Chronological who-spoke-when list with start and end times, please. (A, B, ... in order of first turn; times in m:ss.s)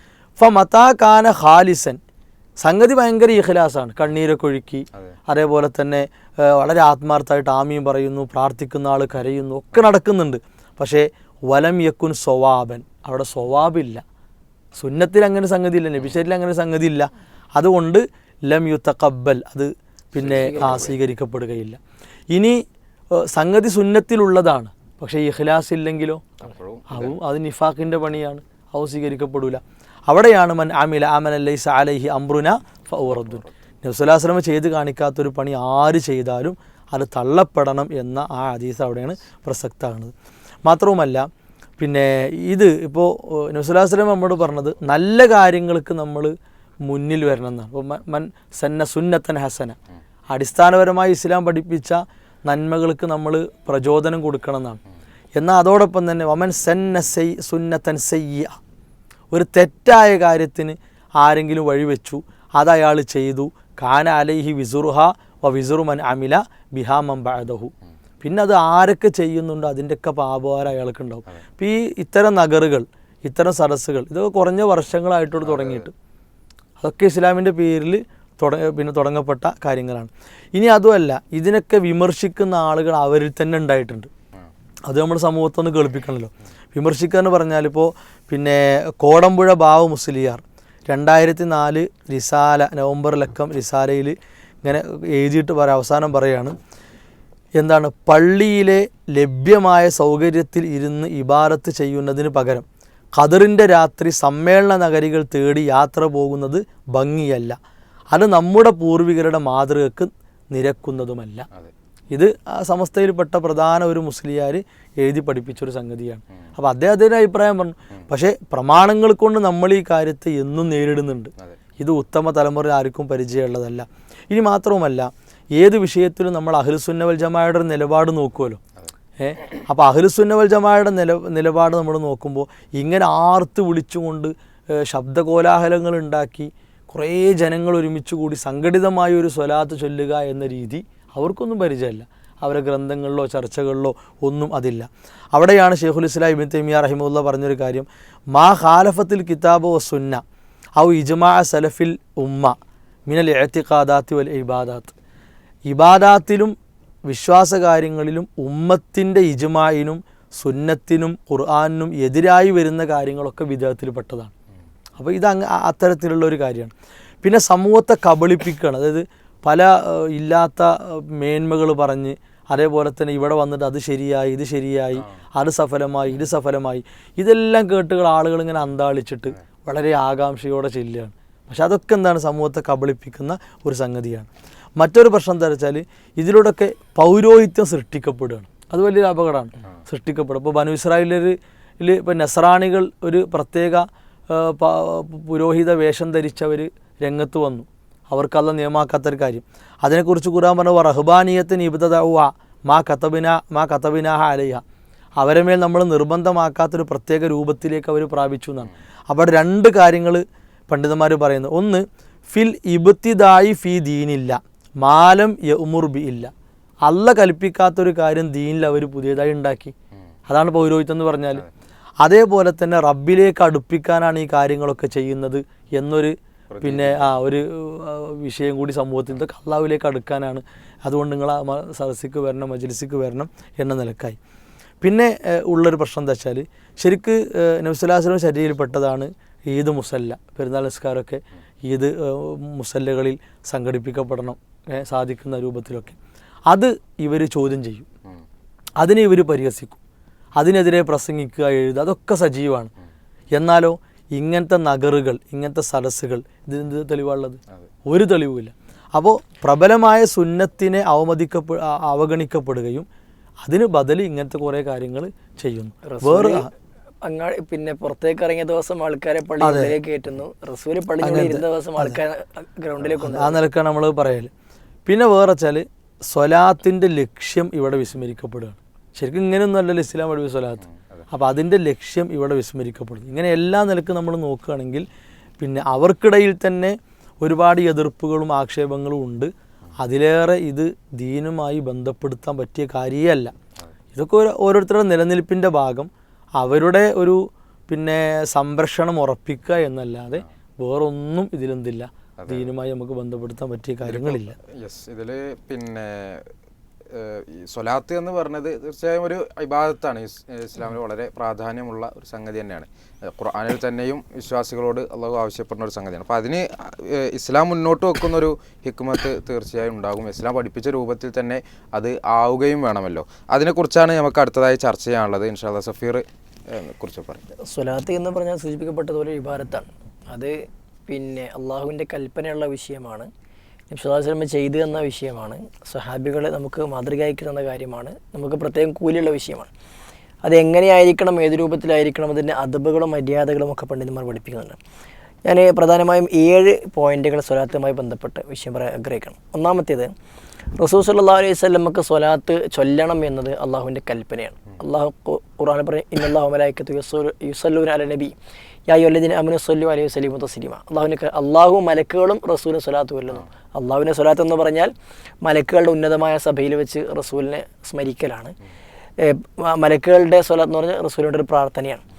0:00.4-0:02.0 A
0:02.6-0:14.0 A
0:14.8-0:21.8 A
0:20.2-0:20.9 B
0:20.2-0:21.0 C
0:22.3-0:22.6 A
0:23.3-0:26.2 A
0:26.4-0:27.1 B
0:26.9-0:40.1 A
0:33.1-0:33.5 B
0:40.7-0:41.3 A
0:41.8-0:49.8 A
0:50.3-0:54.8 A
0:55.4-0:58.6 A
0:59.3-1:15.9 A
1:15.4-1:15.8 B
1:16.8-1:24.1 A
1:24.9-1:36.6 A
1:37.6-1:42.6 A
1:43.2-1:47.6 A
1:48.1-1:51.5 A
1:52.1-2:08.6 A
2:09.2-2:30.2 A
2:30.8-2:32.6 A
2:33.1-2:34.9 A
2:35.7-2:36.5 A
2:37.1-2:44.3 A
2:45.0-3:24.6 A
3:25.2-3:36.3 A
3:36.8-3:39.7 A
3:40.3-3:41.4 A
3:42.0-3:54.2 A
3:46.5-3:47.1 B
3:54.8-4:06.0 A
4:06.5-4:07.9 A
4:08.8-4:09.8 A
4:10.4-4:12.7 A
4:13.3-4:22.9 A
4:23.4-4:26.5 A
4:25.8-4:26.5 C
4:27.0-4:33.4 C
4:29.4-4:29.8 A
4:31.0-4:32.0 A
4:33.0-4:34.3 A
4:34.9-4:44.9 A
4:40.6-4:41.1 B
4:45.4-4:53.3 A
4:53.9-5:04.4 A
5:02.2-5:02.5 B
5:03.8-5:06.3 B
5:06.9-5:27.2 B
5:27.5-5:33.1 C
5:33.7-5:39.5 C
5:40.2-5:44.6 C
5:45.2-5:49.9 C
5:50.6-5:58.1 C
5:58.7-6:04.7 C
6:05.2-6:08.3 C
6:09.0-6:11.8 C